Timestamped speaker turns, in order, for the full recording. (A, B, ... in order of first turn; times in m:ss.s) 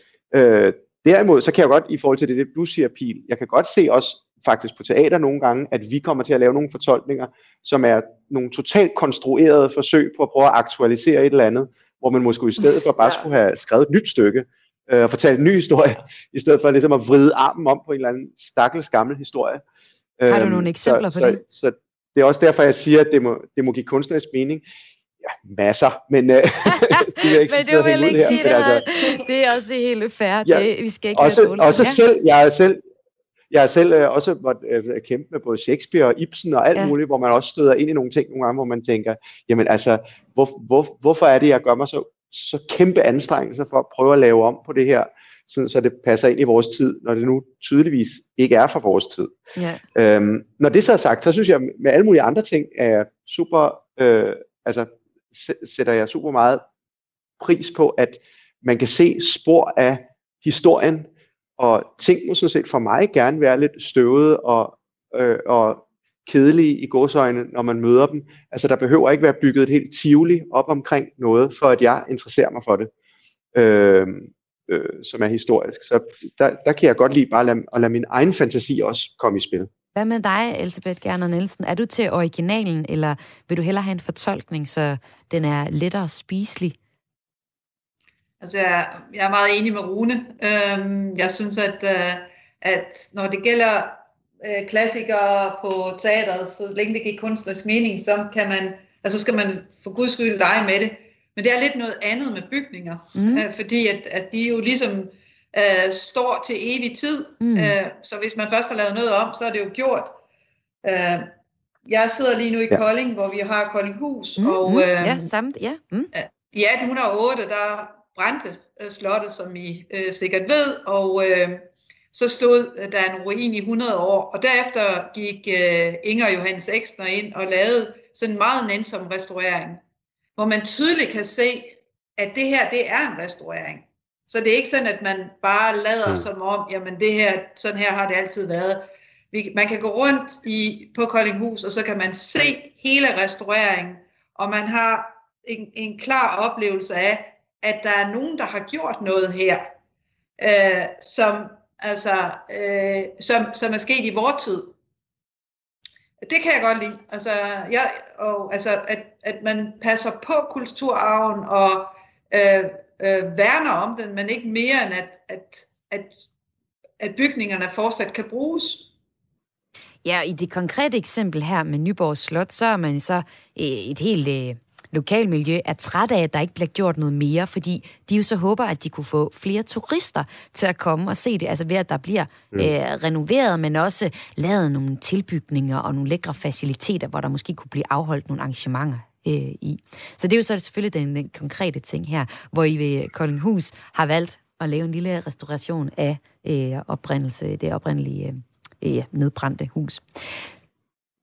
0:00.3-0:19.6 A
0:20.2-0:24.6 A
0:20.3-0:21.4 B
0:25.2-0:28.8 A
0:26.9-0:32.0 B
0:30.4-0:32.8 A
0:33.5-0:49.3 A
0:49.6-0:49.8 B
0:49.9-0:56.6 A
0:57.4-1:12.9 A
1:13.5-1:19.7 A
1:19.9-1:26.8 B
1:28.4-1:50.2 C
1:43.2-1:43.4 B
1:47.4-1:47.7 B
1:50.8-1:51.3 C
1:51.8-1:55.2 C
1:54.4-1:56.1 B
1:56.1-2:09.8 C
2:10.4-2:29.7 C
2:30.4-2:34.7 C
2:36.2-2:46.1 C
2:47.0-2:48.9 C
2:50.0-3:20.5 B